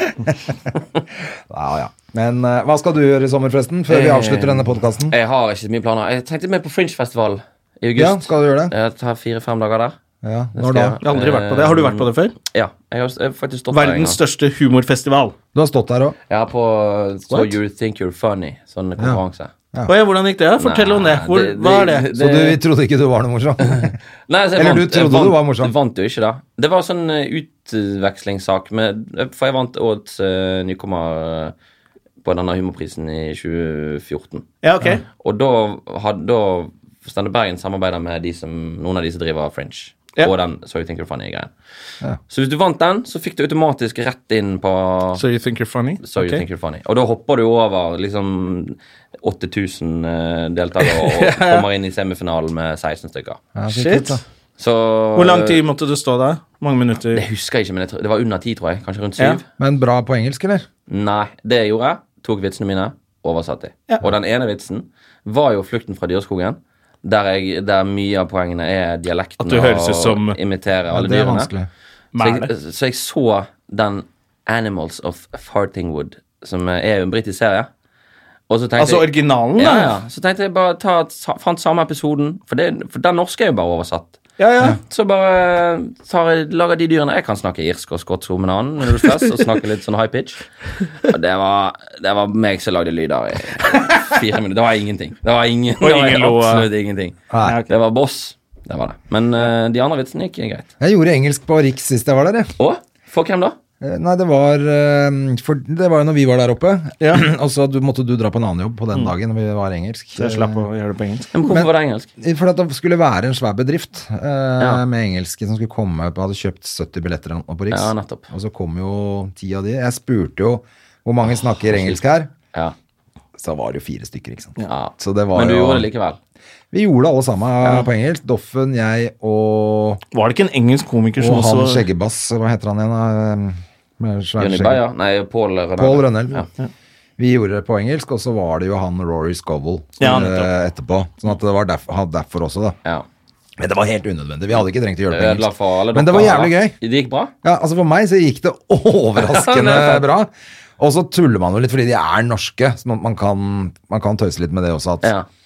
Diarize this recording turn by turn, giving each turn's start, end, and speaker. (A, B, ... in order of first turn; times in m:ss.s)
0:00.1-0:05.1 A
0:03.9-0:10.0 B
0:08.0-0:08.7 A
0:10.2-0:11.0 A
0:10.6-0:14.2 B
0:11.0-0:12.4 C
0:13.7-0:15.4 C
0:15.6-0:16.2 A
0:16.3-0:19.5 B
0:17.3-0:17.6 C
0:19.9-0:22.1 C
0:20.6-0:22.6 B
0:22.1-0:24.0 A
0:23.7-0:31.5 B
0:24.6-0:25.7 A
0:32.2-0:34.5 B
0:34.6-0:35.0 C
0:35.2-0:41.5 B
0:42.3-0:45.2 B
0:45.2-0:46.4 C
0:46.0-0:53.4 B
0:50.8-0:51.7 C
0:53.6-0:54.2 A
0:53.7-0:54.2 C
0:54.6-0:55.6 B
0:55.2-0:57.2 C
0:57.1-0:59.4 B
0:59.6-1:00.6 A
1:00.9-1:11.5 B
1:09.4-1:10.4 C
1:10.9-1:11.7 A
1:12.1-1:12.5 C
1:12.2-1:17.7 B
1:18.5-1:30.4 B
1:18.8-1:19.9 C
1:24.4-1:24.8 C
1:31.0-1:40.7 B
1:35.8-1:36.7 C
1:37.3-1:37.6 A
1:40.8-1:42.5 A
1:42.6-1:43.6 B
1:43.8-1:50.7 A
1:47.0-1:47.3 C
1:50.2-1:51.3 C
1:51.3-1:52.1 B
1:51.4-2:02.3 A
1:57.7-1:58.3 B
2:01.7-2:02.0 B
2:03.4-2:05.9 A
2:04.7-2:06.2 B
2:06.7-2:10.0 A
2:07.6-2:07.9 B
2:10.1-2:11.8 C
2:11.2-2:14.8 A
2:14.4-2:16.5 B
2:15.8-2:16.4 A
2:17.2-2:22.8 A
2:20.0-2:20.5 C
2:23.6-2:26.8 A
2:25.1-2:27.3 B
2:27.4-2:35.1 A
2:29.2-2:30.1 B